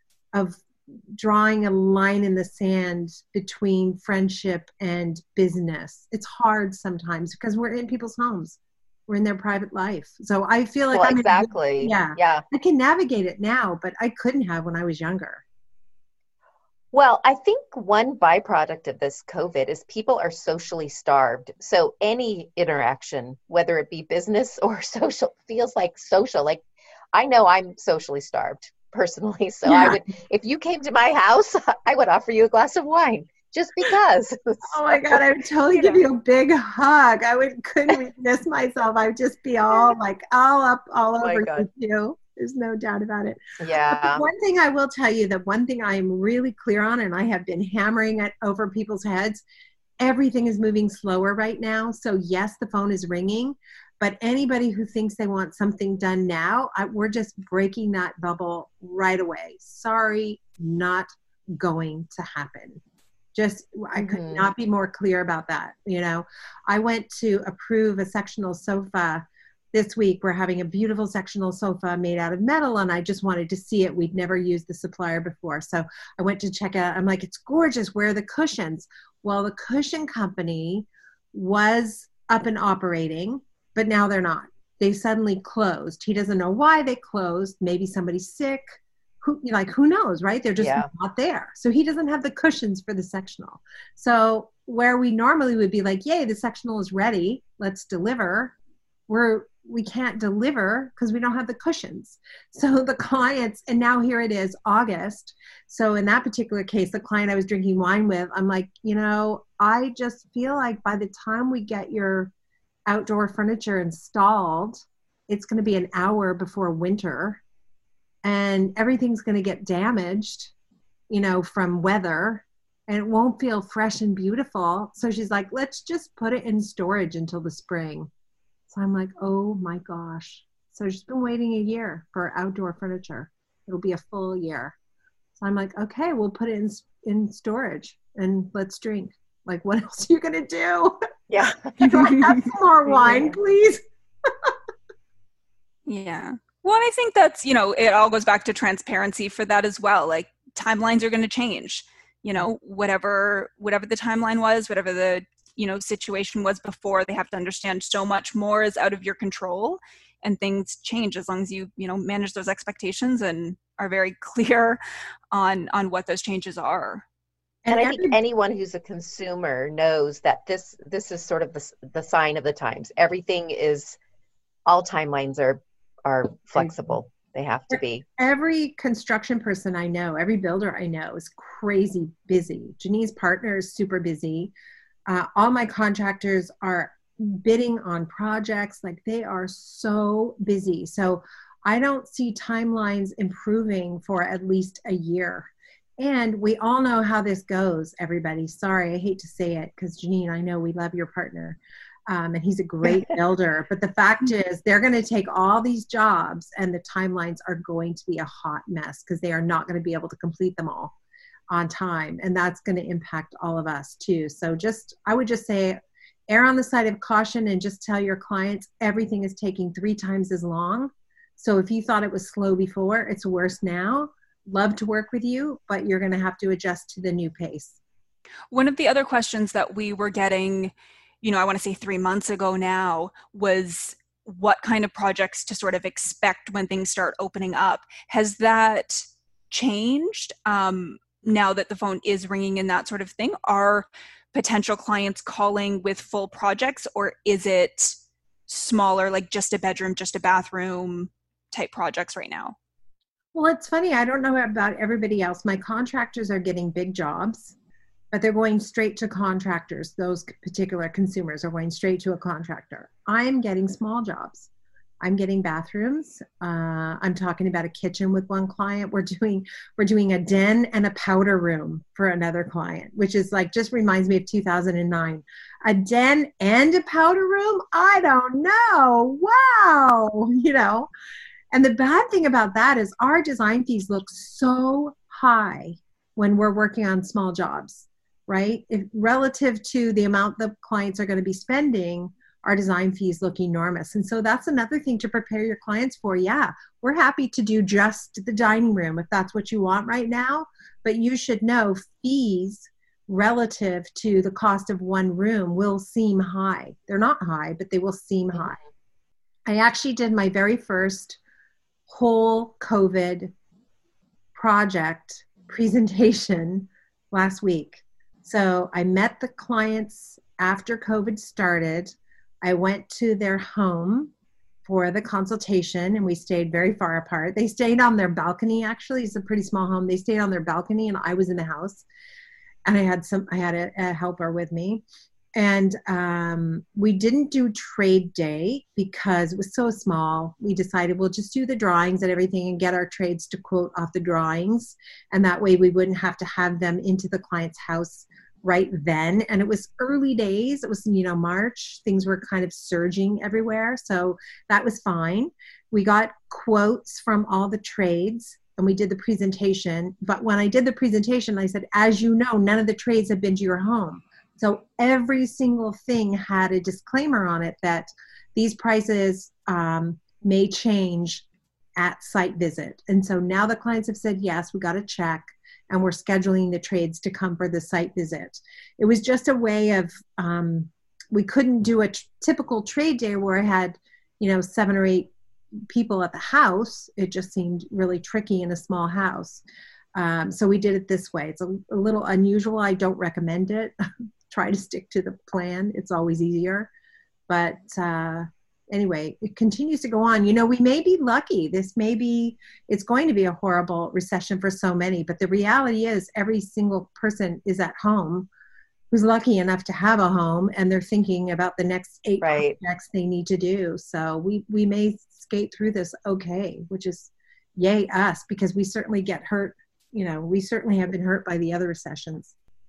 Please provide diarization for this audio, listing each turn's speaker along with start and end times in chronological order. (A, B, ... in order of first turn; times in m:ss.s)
0:00.3-0:15.4 A
0:10.9-0:12.4 B
0:16.9-0:26.6 B
0:27.1-0:36.0 B
0:29.7-0:30.0 A
0:34.7-0:43.4 A
0:41.2-0:41.7 B
0:43.6-0:44.3 B
0:43.9-0:49.4 A
0:50.0-1:02.8 A
1:03.4-1:38.6 A
1:04.0-1:04.5 B
1:30.6-1:30.9 B
1:39.1-1:52.3 A
1:52.9-1:57.4 A
1:58.2-2:00.5 A
2:01.1-2:08.1 A
2:08.7-2:14.8 A
2:15.4-2:21.0 A
2:21.3-2:22.2 B
2:21.8-2:24.5 A
2:21.8-2:22.2 C
2:22.9-2:23.4 B
2:25.9-2:44.8 C
2:45.3-2:47.0 C
2:47.6-2:48.2 A
2:47.7-2:54.0 B
2:54.7-2:58.0 B
2:57.7-3:04.5 A
3:05.1-3:30.9 A
3:31.5-3:47.8 A
3:48.5-4:07.9 C
4:08.5-4:12.6 C
4:13.3-4:17.6 A
4:18.1-4:24.5 A
4:25.0-4:40.9 A
4:41.5-5:08.6 A
5:09.5-5:11.2 A
5:11.9-5:13.3 A
5:14.4-5:24.1 A
5:24.6-5:31.8 A
5:32.6-5:34.8 A
5:35.4-6:11.2 A
6:11.8-6:25.1 A
6:25.7-6:29.4 A
6:30.0-6:33.8 A
6:34.3-6:36.7 A
6:37.3-6:48.3 A
6:48.9-7:02.3 A
6:52.2-6:52.6 B